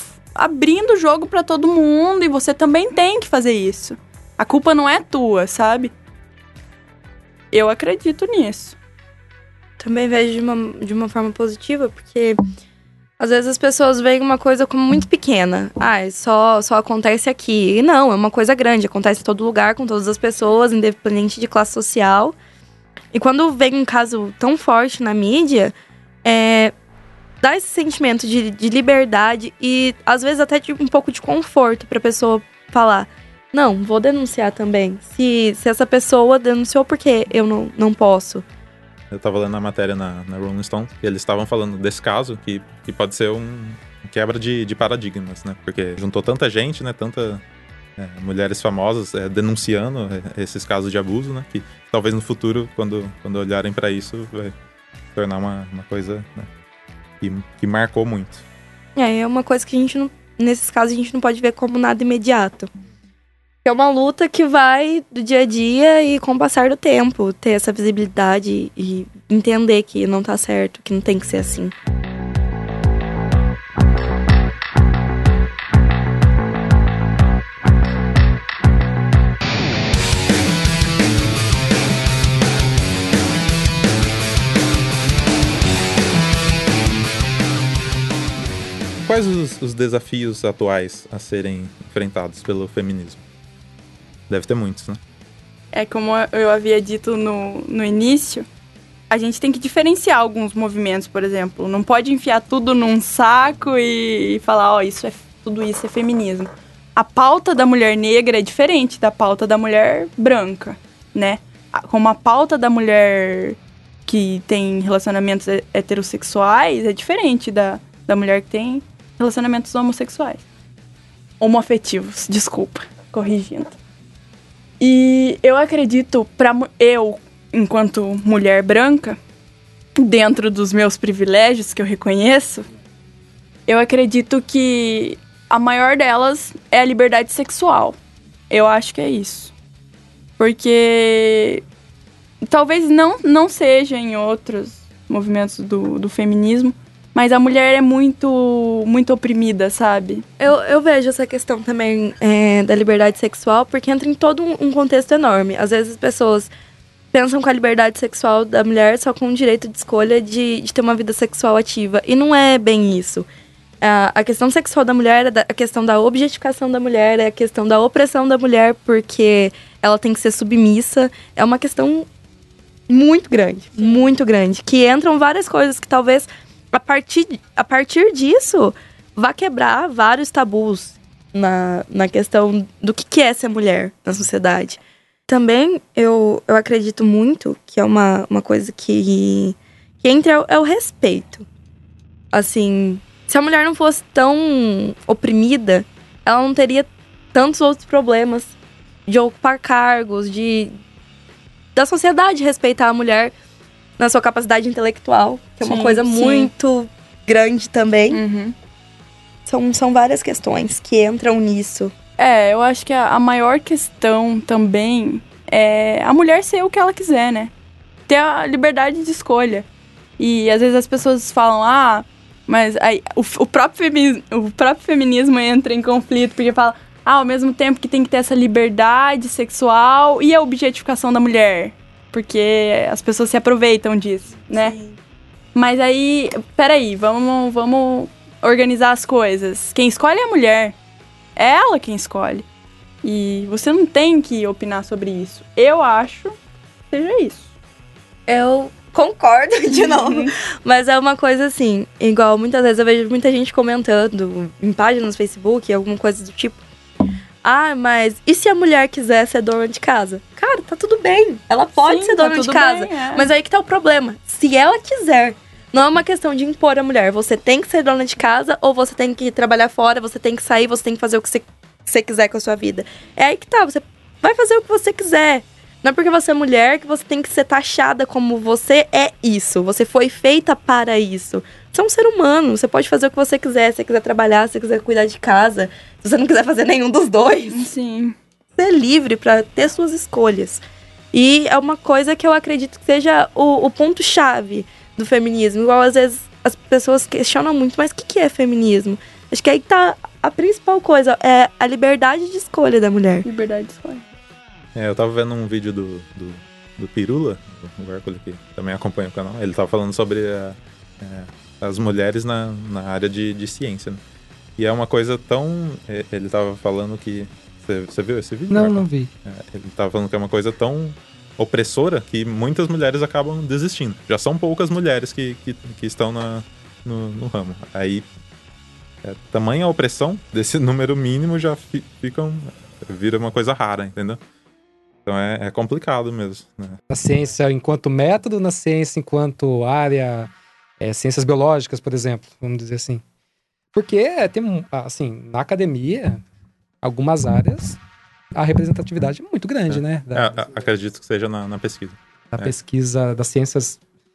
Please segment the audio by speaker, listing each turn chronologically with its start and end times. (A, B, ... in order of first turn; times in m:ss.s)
0:00.3-0:05.9 A
0:07.5-0:08.8 A
0:09.8-0:12.4 B
0:13.2-0:22.4 B
0:23.1-0:25.7 B
0:26.2-0:26.7 B
0:27.4-0:38.4 B
0:39.1-0:47.4 C
0:48.0-0:54.5 C
0:55.1-0:56.5 C
0:57.2-0:58.4 C
0:59.0-1:02.7 B
1:03.6-1:11.7 B
1:29.0-1:33.2 C
1:34.3-1:35.0 C
1:35.7-1:38.4 A
1:39.1-2:00.4 A
2:01.4-2:03.8 A
2:04.8-2:09.2 A
2:10.0-2:12.7 A
2:13.7-2:18.0 A
2:18.5-2:19.5 A
2:20.4-2:21.6 A
2:22.4-2:30.2 A
2:30.4-2:36.5 B
2:37.1-2:43.3 B
2:43.8-2:52.1 B
2:52.9-3:11.4 B
2:53.8-2:54.0 A
3:12.3-3:18.5 B
3:19.1-3:20.7 B
3:21.8-3:23.3 B
3:24.0-3:28.2 B
3:25.6-3:26.5 A
3:28.1-3:28.5 A
3:29.4-3:31.9 B
3:32.2-3:37.5 A
3:38.1-3:39.6 A
3:40.2-3:54.8 A
3:54.5-3:55.0 B
3:55.5-4:00.7 A
4:01.4-4:02.4 A
4:03.0-4:06.4 A
4:06.9-4:07.5 A
4:08.3-4:16.6 B
4:09.7-4:10.3 A
4:17.4-4:47.7 B
4:21.8-4:23.3 A
4:47.5-4:48.2 A
4:48.6-5:03.2 B
5:03.2-5:04.0 A
5:04.7-5:14.0 C
5:14.6-5:28.1 C
5:18.5-5:19.1 D
5:29.0-5:34.2 C
5:35.0-5:36.8 C
5:36.9-5:43.0 D
5:43.7-5:46.2 D
5:46.8-5:47.8 D
5:48.3-5:50.4 D
5:49.7-5:52.5 C
5:52.3-5:53.8 D